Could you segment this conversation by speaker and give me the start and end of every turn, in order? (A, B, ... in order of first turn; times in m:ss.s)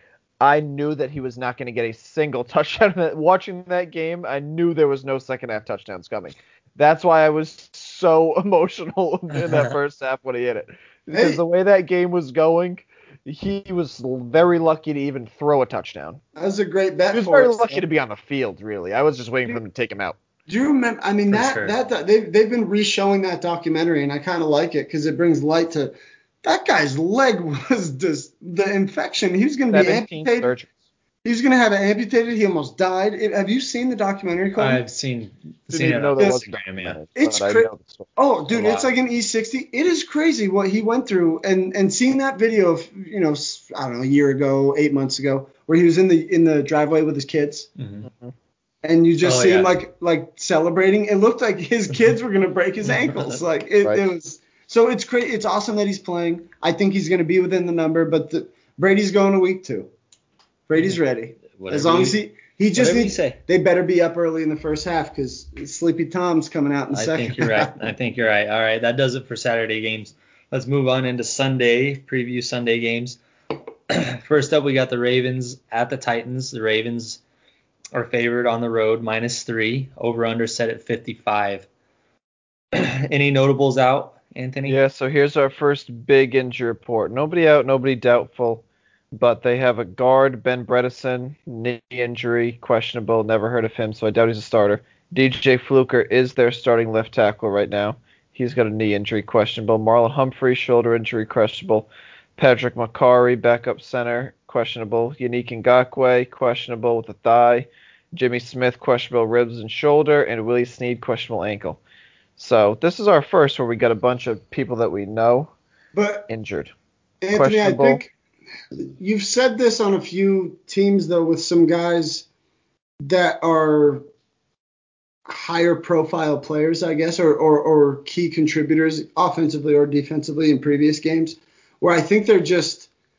0:00.4-0:16.2 A
0:09.4-0:09.7 B
0:11.1-0:11.4 C
0:16.4-0:17.8 C
0:17.1-0:20.2 A
0:20.5-0:30.5 C
0:21.3-0:21.7 B
0:29.7-0:30.7 A
0:31.2-0:34.8 C
0:34.6-0:37.0 B
0:35.7-0:38.1 A
0:37.2-0:47.7 C
0:38.5-0:38.9 B
0:47.8-0:48.1 B
0:48.0-0:48.3 A
0:48.8-0:59.9 C
0:49.2-0:49.7 B
0:52.9-0:53.4 B
1:00.7-1:07.9 C
1:01.6-1:02.2 B
1:02.8-1:03.4 B
1:06.9-1:13.2 B
1:13.9-1:17.2 B
1:17.9-1:21.7 B
1:22.7-1:24.8 B
1:24.6-1:28.6 A
1:29.2-1:51.8 A
1:52.4-1:55.5 A
1:55.9-1:56.3 C
1:56.3-1:56.7 A
1:57.2-1:58.1 C
1:57.4-1:58.0 A
1:58.8-2:02.3 C
2:03.0-2:04.0 C
2:05.3-2:12.9 C